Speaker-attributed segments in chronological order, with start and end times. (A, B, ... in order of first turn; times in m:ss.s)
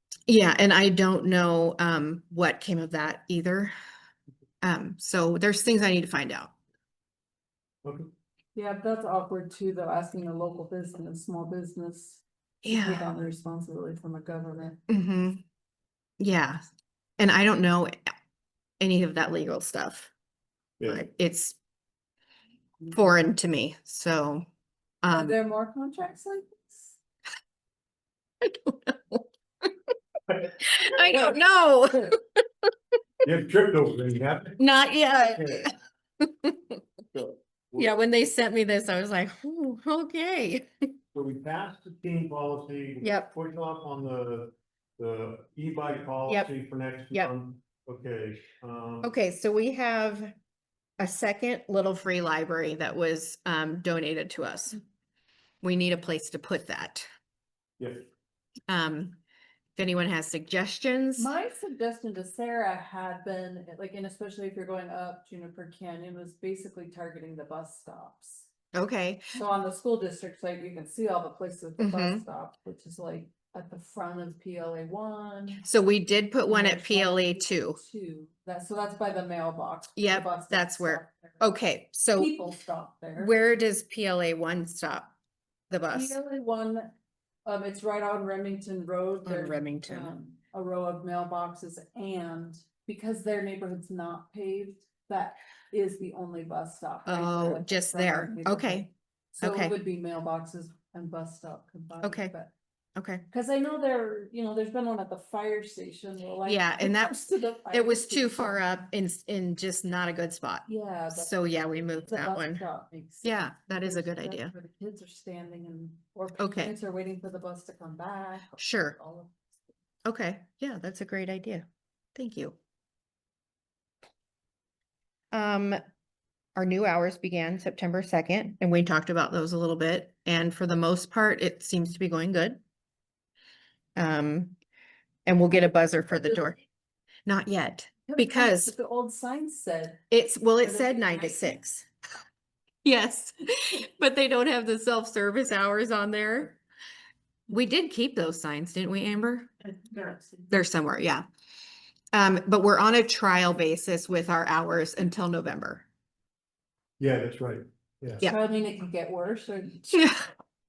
0:00.3-0:03.7 A
0:04.6-0:06.5 A
0:07.8-0:08.1 B
0:08.5-0:14.8 C
0:12.6-0:13.1 A
0:14.9-0:15.4 A
0:16.2-0:16.6 A
0:17.2-0:17.9 A
0:18.8-0:20.1 A
0:20.9-0:21.6 A
0:22.9-0:24.4 A
0:25.0-0:25.4 A
0:25.1-0:27.0 C
0:28.4-0:29.7 A
0:30.6-0:32.7 A
0:33.2-0:34.6 B
0:34.6-0:36.8 A
0:35.4-0:35.6 B
0:37.1-0:37.9 B
0:37.7-0:40.7 A
0:41.1-0:49.2 B
0:43.0-0:43.3 A
0:49.0-0:50.3 A
0:51.0-0:54.8 A
0:55.6-0:57.0 A
0:57.8-0:58.1 B
0:58.7-0:59.2 A
0:59.8-1:01.3 A
1:01.2-1:08.5 C
1:08.7-1:09.3 A
1:09.3-1:15.6 C
1:11.8-1:12.2 A
1:15.6-1:17.8 A
1:16.4-1:21.5 C
1:20.0-1:22.3 A
1:22.1-1:23.4 C
1:23.2-1:25.1 A
1:25.7-1:26.2 A
1:25.9-1:26.9 C
1:27.4-1:42.5 C
1:29.2-1:30.1 A
1:37.0-1:38.9 A
1:39.4-1:39.8 A
1:42.0-1:42.3 A
1:43.0-1:43.2 A
1:43.3-1:48.7 C
1:46.4-1:52.6 A
1:50.7-1:51.3 C
1:52.0-1:59.6 C
1:53.2-1:54.5 A
1:56.4-1:56.7 A
1:58.6-1:59.0 A
2:00.0-2:02.6 A
2:05.3-2:05.8 A
2:06.5-2:12.6 A
2:14.0-2:14.6 A
2:15.2-2:16.6 A
2:17.2-2:18.7 A
2:18.1-2:20.0 C
2:20.1-2:21.9 A
2:20.6-2:21.6 C
2:22.8-2:26.6 A
2:27.5-2:29.5 A
2:30.4-2:31.2 A
2:32.1-2:35.8 A
2:37.0-2:38.2 B
2:38.2-2:40.2 C
2:39.9-2:40.3 A